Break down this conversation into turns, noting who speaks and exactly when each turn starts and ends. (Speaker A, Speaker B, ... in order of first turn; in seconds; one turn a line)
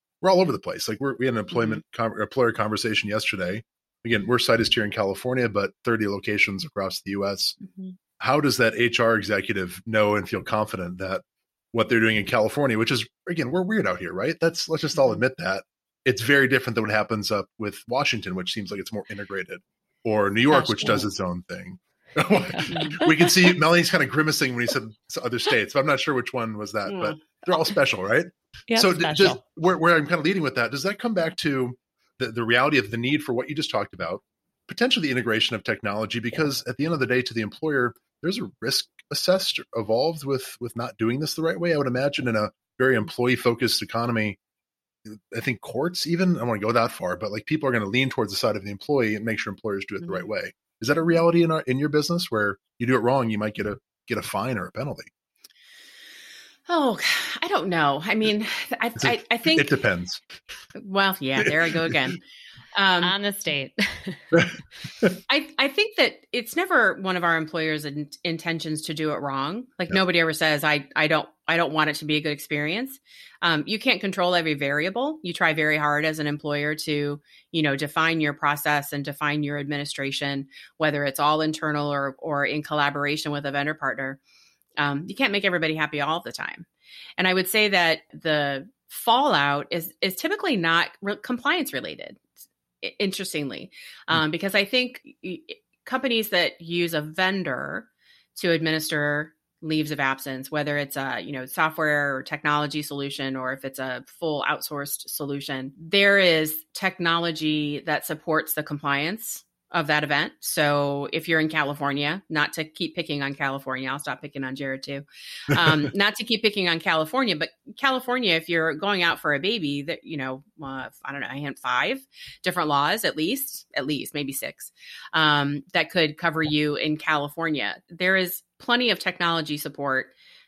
Speaker A: 0.2-7.6
Speaker B: 1.5-1.8
Speaker A: 8.2-44.4
Speaker C: 20.5-21.1
Speaker C: 22.5-23.1
Speaker C: 28.7-29.4
Speaker A: 45.0-55.1
Speaker B: 56.7-59.7
Speaker A: 59.0-60.2
Speaker B: 60.8-62.2
Speaker A: 61.4-61.9
Speaker B: 62.7-63.1
Speaker C: 63.0-64.5
Speaker A: 64.3-65.1
Speaker B: 65.3-84.2
Speaker B: 84.8-86.7
Speaker B: 87.2-92.2
Speaker B: 92.8-130.1